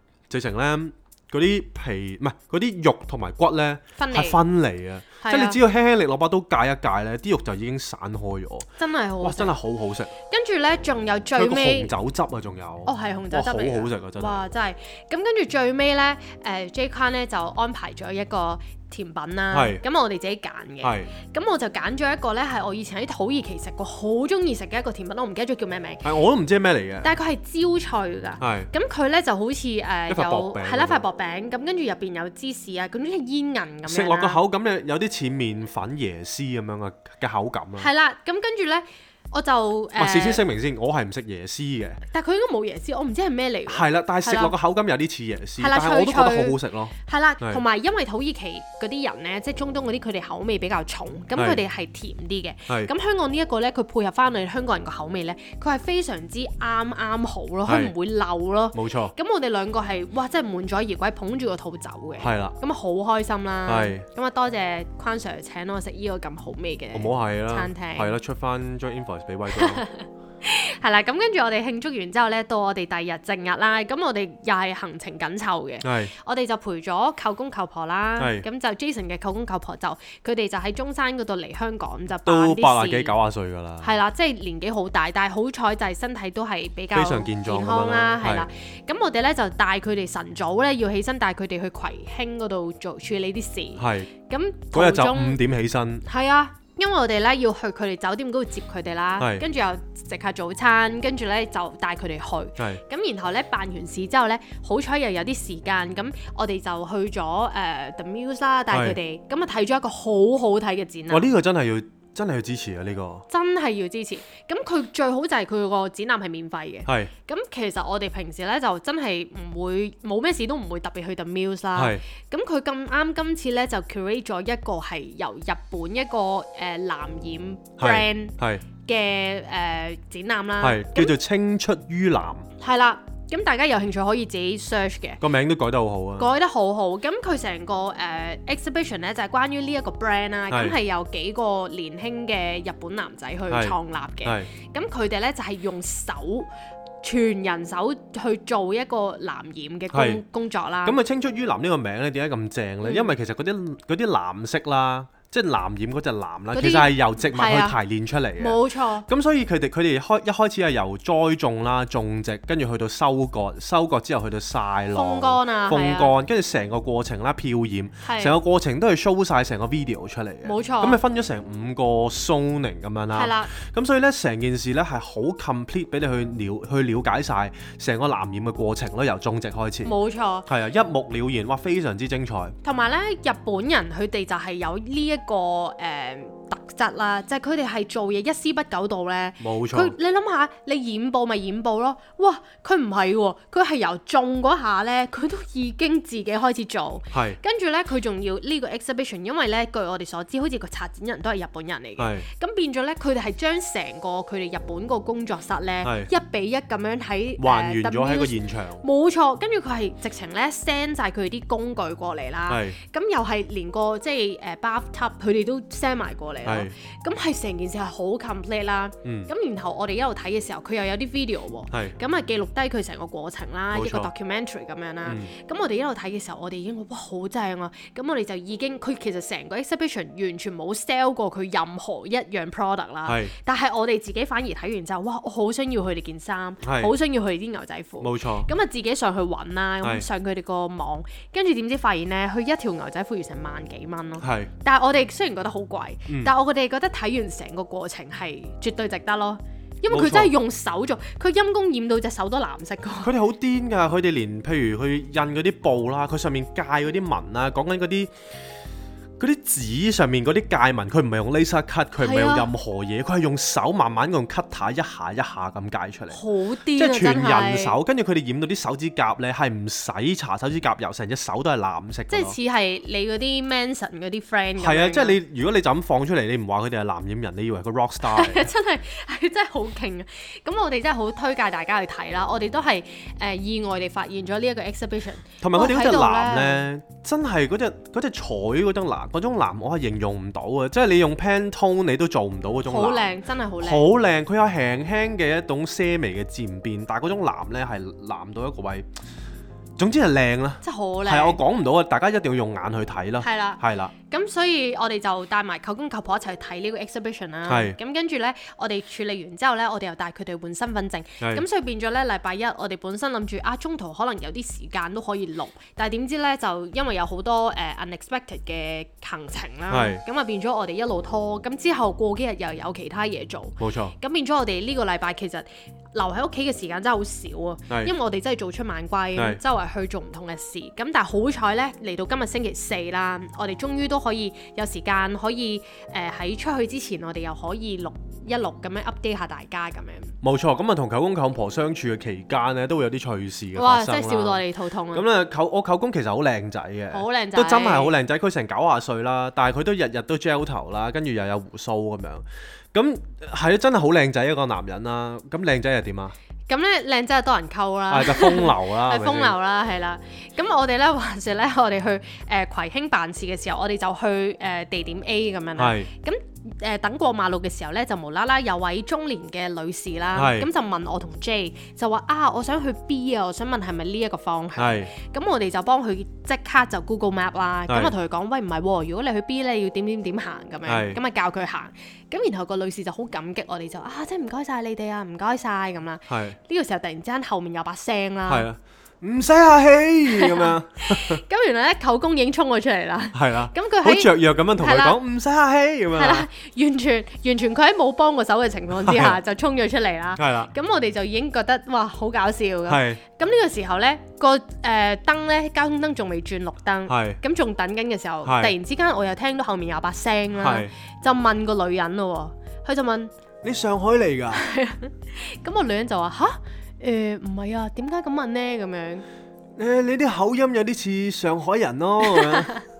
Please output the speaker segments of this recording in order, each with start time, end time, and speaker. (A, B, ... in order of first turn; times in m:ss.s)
0:00.3-0:08.7 A
0:04.0-0:04.4 B
0:05.2-0:05.6 B
0:08.8-0:09.5 B
0:09.2-0:10.1 A
0:10.3-0:11.9 B
0:11.4-0:14.4 A
0:12.8-0:26.0 B
0:19.5-0:19.8 A
0:20.8-0:21.1 A
0:26.0-0:27.1 A
0:27.0-0:34.4 B
0:28.4-0:28.7 A
0:30.1-0:31.0 A
0:33.8-0:37.9 A
0:37.8-0:40.4 B
0:40.0-0:42.0 A
0:42.1-0:44.5 B
0:43.7-0:47.6 A
0:45.6-1:08.1 B
0:51.3-0:51.6 A
0:57.7-0:57.9 A
0:58.7-0:59.1 A
1:02.2-1:02.5 A
1:03.6-1:04.0 A
1:06.9-1:09.8 A
1:09.5-1:23.1 B
1:15.8-1:16.1 A
1:18.2-1:18.4 A
1:22.2-1:23.9 A
1:23.8-1:35.4 B
1:26.9-1:28.5 A
1:33.8-1:34.1 A
1:34.7-1:36.0 A
1:36.0-1:51.3 B
1:39.2-1:39.4 A
1:48.7-1:49.0 A
1:51.1-1:53.2 A
1:53.3-2:11.1 B
2:01.8-2:02.0 A
2:07.8-2:08.6 A
2:10.6-2:12.5 A
2:12.6-2:15.2 B
2:15.2-2:16.3 A
2:16.2-2:26.5 B
2:20.5-2:20.8 A
2:23.5-2:24.5 A
2:27.0-2:31.0 B
2:29.9-2:30.2 A
2:30.8-2:59.9 A
2:32.8-2:33.1 B
2:36.5-2:37.8 B
2:38.4-2:39.1 B
2:44.9-2:46.1 B
2:48.0-2:48.3 B
2:50.4-2:51.0 B
2:53.1-2:53.5 B
2:59.8-3:00.5 B
3:00.5-3:02.6 A
3:02.6-4:13.1 B
3:09.4-3:09.9 A
3:17.1-3:17.4 A
3:22.0-3:22.2 A
3:25.8-3:26.1 A
3:27.4-3:28.8 A
3:32.5-3:32.8 A
3:36.4-3:36.7 A
3:39.0-3:39.3 A
3:43.7-3:44.1 A
3:45.0-3:45.3 A
3:53.0-3:53.3 A
3:56.6-3:56.9 A
3:58.0-3:58.5 A
4:04.2-4:04.5 A
4:06.1-4:06.3 A
4:09.9-4:10.3 A
4:13.0-4:18.1 A
4:19.2-4:26.2 A
4:22.0-4:22.5 B
4:26.1-4:27.8 B
4:26.7-4:32.4 A
4:32.1-4:35.2 B
4:34.6-4:38.5 A
4:38.0-4:46.6 B
4:45.4-4:58.9 A
4:52.7-4:53.8 B
4:59.8-5:03.9 A
5:00.6-5:01.4 B
5:03.2-5:40.1 B
5:07.5-5:07.8 A
5:11.2-5:11.4 A
5:19.7-5:20.0 A
5:23.6-5:23.9 A
5:40.2-5:56.1 A
5:43.5-5:45.0 B
5:46.9-5:47.9 B
5:56.5-6:28.4 B
5:57.9-5:59.3 A
6:05.6-6:05.9 A
6:10.1-6:10.5 A
6:14.6-6:14.9 A
6:17.7-6:17.9 A
6:20.6-6:21.0 A
6:26.1-6:26.4 A
6:28.3-6:31.2 A
6:30.1-6:35.0 B
6:33.1-6:36.3 A
6:35.9-6:53.1 B
6:38.7-6:39.2 A
6:40.2-6:40.5 A
6:42.7-6:43.0 A
6:46.9-6:47.2 A
6:48.2-6:48.5 A
6:50.4-6:50.7 A
6:53.4-6:54.5 A
6:54.3-6:59.0 B
6:59.6-7:02.5 A
7:02.0-7:02.6 B